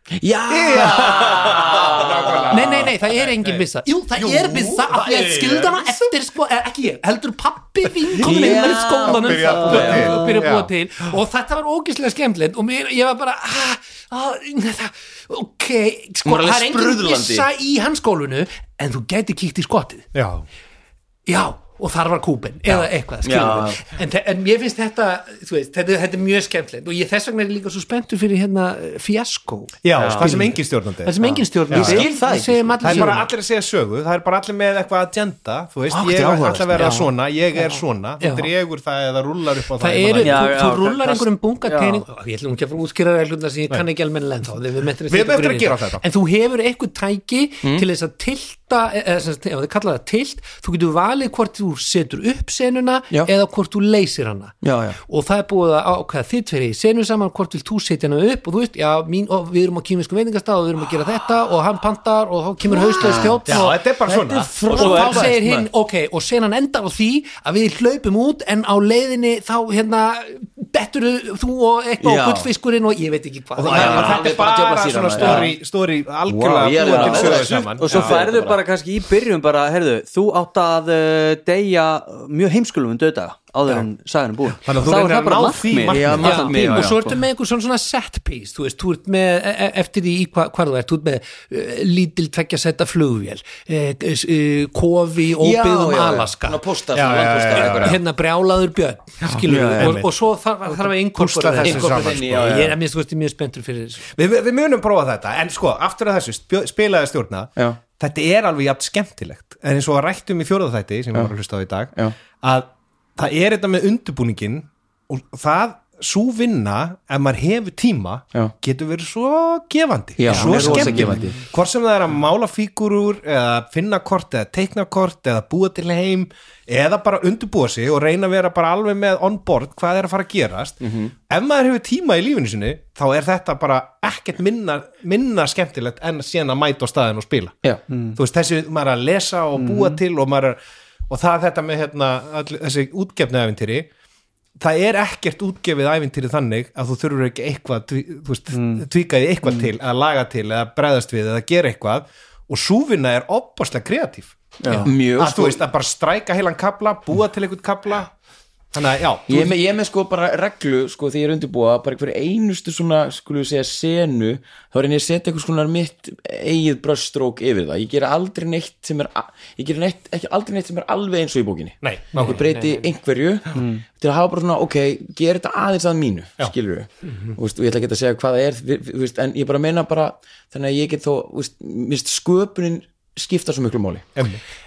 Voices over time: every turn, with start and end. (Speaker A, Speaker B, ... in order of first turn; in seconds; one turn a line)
Speaker A: 0.2-2.9
Speaker B: 0.5-3.6
Speaker C: 2.5-20.1
Speaker B: 4.2-6.1
Speaker B: 8.1-10.7
Speaker A: 8.2-10.2
Speaker D: 9.6-10.2
Speaker A: 16.2-17.5
Speaker B: 20.1-20.4
Speaker C: 21.2-33.3
Speaker A: 23.2-23.8
Speaker B: 29.8-32.1
Speaker D: 29.9-30.3
Speaker A: 31.2-33.2
Speaker B: 32.8-40.4
Speaker A: 35.9-37.0
Speaker C: 36.7-38.5
Speaker C: 39.8-63.8
Speaker D: 40.2-42.0
Speaker B: 45.1-46.0
Speaker A: 54.6-55.0
Speaker A: 62.7-65.7
Speaker B: 63.5-65.2
Speaker C: 64.7-74.3
Speaker D: 64.8-65.1
Speaker A: 72.0-72.5
Speaker B: 73.5-78.3
Speaker A: 73.7-75.5
Speaker A: 76.3-78.6
Speaker D: 76.8-87.0
Speaker B: 84.6-86.5
Speaker A: 85.9-87.1
Speaker C: 86.2-96.6
Speaker A: 95.4-98.0
Speaker B: 96.9-98.0
Speaker C: 97.5-104.1
Speaker B: 99.3-100.1
Speaker A: 99.3-100.0
Speaker B: 100.7-102.5
Speaker A: 101.6-102.8
Speaker B: 104.1-137.5
Speaker A: 120.2-121.4
Speaker C: 120.3-121.2
Speaker A: 130.8-131.1
Speaker D: 137.9-138.2
Speaker B: 138.1-140.6
Speaker D: 139.6-140.0
Speaker B: 141.1-143.9
Speaker B: 144.6-158.1
Speaker D: 148.5-148.8
Speaker D: 154.6-154.9
Speaker A: 154.8-155.6
Speaker B: 158.7-159.5
Speaker A: 159.3-184.1
Speaker B: 171.8-172.4
Speaker C: 172.1-172.9
Speaker D: 173.5-173.8
Speaker B: 184.2-184.4